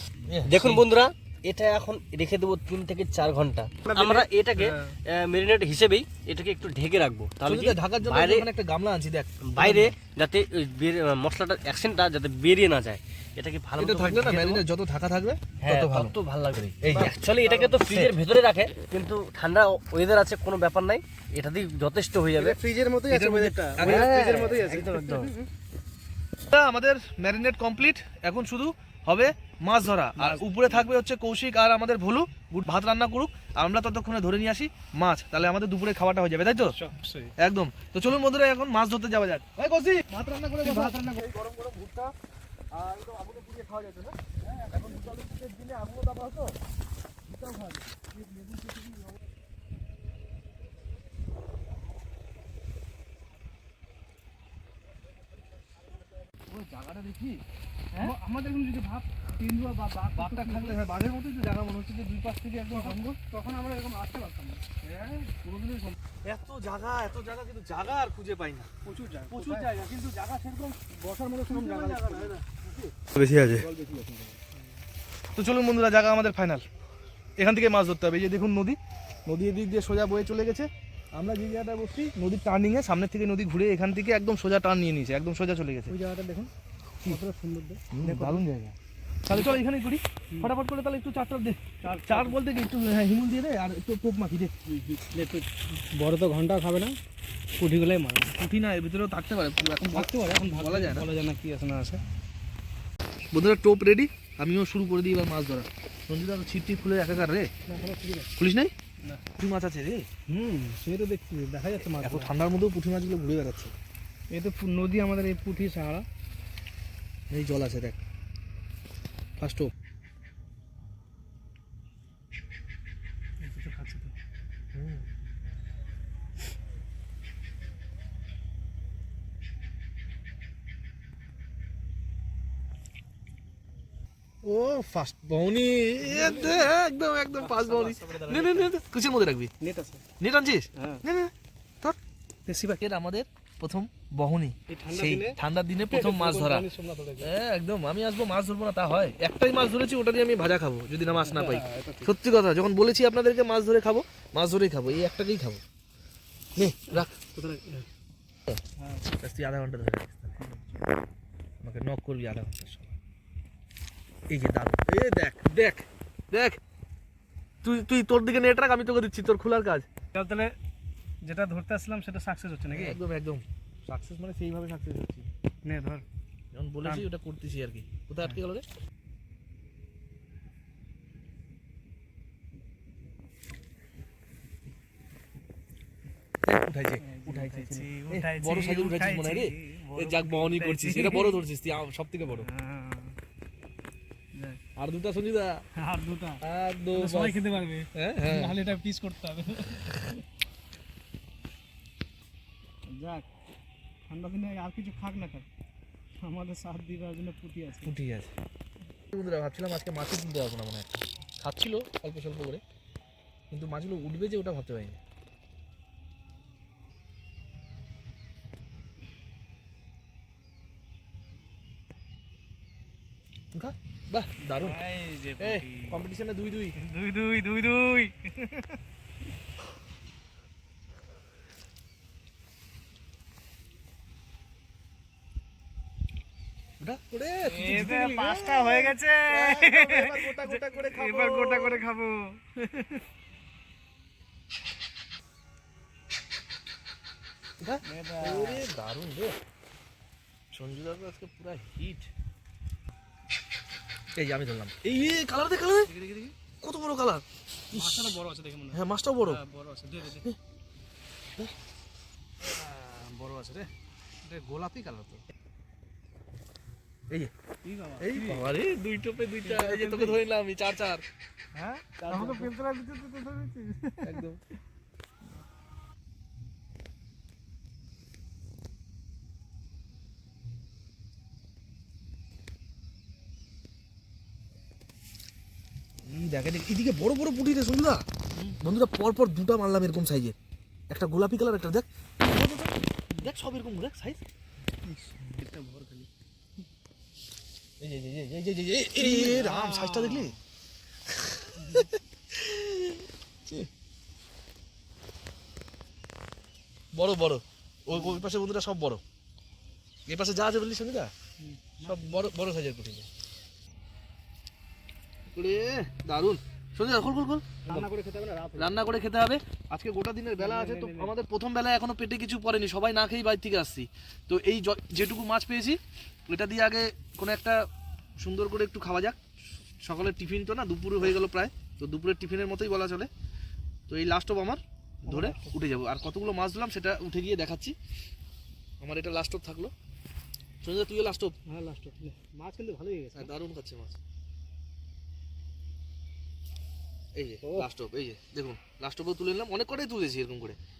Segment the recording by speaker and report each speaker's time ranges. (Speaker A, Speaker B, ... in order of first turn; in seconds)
Speaker A: 0.3-0.8, 7.4-9.9, 13.8-17.1, 17.9-18.1, 23.1-24.1, 26.4-36.8, 37.4-42.1, 42.7-46.5, 47.3-48.8, 56.5-58.1, 60.1-63.0, 64.8-65.4, 66.2-68.7, 69.3-70.8, 71.5-74.3, 75.3-76.6, 77.4-85.9, 87.9-88.7, 89.3-94.5, 98.2-101.1, 103.3-107.5, 108.4-108.7, 109.4-110.1, 112.0-113.7, 117.3-118.0, 119.4-119.6, 124.7-125.0, 134.4-139.5, 140.2-141.9, 142.8-146.7, 147.2-155.6, 156.6-157.1, 159.2-160.4, 161.6-163.0, 164.3-166.6, 167.6-169.9, 172.7-175.3, 176.5-178.6, 186.4-192.5, 194.8-195.6, 196.4-197.4, 197.9-198.6, 207.8-208.3, 209.1-210.9, 211.4-212.6, 213.5-215.0, 223.5-224.8, 225.4-226.7, 236.8-241.8, 247.6-249.3, 250.5-252.1, 254.1-255.9, 256.6-258.1, 258.7-259.4, 268.0-271.0, 272.0-272.5, 274.0-274.4, 286.0-288.0, 288.6-290.3, 290.9-294.2, 297.8-300.3, 301.1-303.7, 306.9-309.0, 310.1-311.1, 311.8-313.1, 315.3-317.9, 318.6-325.8, 326.3-327.6, 328.2-329.2, 329.8-333.1, 333.9-337.7, 338.8-339.7, 340.6-341.3, 343.1-344.0, 347.1-350.6
Speaker B: 0.4-8.5, 9.5-14.6, 15.6-22.6, 23.8-25.3, 73.2-73.6
Speaker C: 3.8-4.9, 16.9-17.8, 22.4-25.5, 30.1-30.7, 36.6-37.3, 40.6-41.2, 44.5-45.1, 58.0-60.8, 62.7-65.9, 68.8-69.7, 70.9-72.4, 73.9-74.6, 85.9-86.5, 87.0-88.4, 89.3-89.6, 91.8-92.4, 94.7-97.0, 97.6-98.3, 99.8-102.0, 107.7-108.3, 110.3-112.3, 114.3-116.0, 123.4-124.1, 136.0-136.7, 137.3-138.7, 139.6-140.0, 140.8-141.0, 142.4-142.8, 144.7-145.4, 145.9-147.3, 151.2-152.1, 156.9-157.8, 158.8-159.1, 170.1-170.6, 171.2-173.0, 175.6-176.0, 187.0-191.4, 192.3-193.1, 194.3-194.6, 195.8-196.4, 196.9-200.1, 202.9-203.2, 204.1-205.5, 206.2-207.9, 224.5-226.0, 226.8-228.8, 237.4-243.0, 247.9-248.7, 255.9-256.3, 257.7-260.3, 262.4-263.7, 264.2-265.2, 267.6-268.5, 269.4-270.2, 271.5-274.2, 294.9-296.1, 299.0-300.4, 301.6-301.9, 311.4-312.3, 317.6-318.9, 320.4-321.1, 335.0-335.5, 341.4-343.3, 347.4-347.7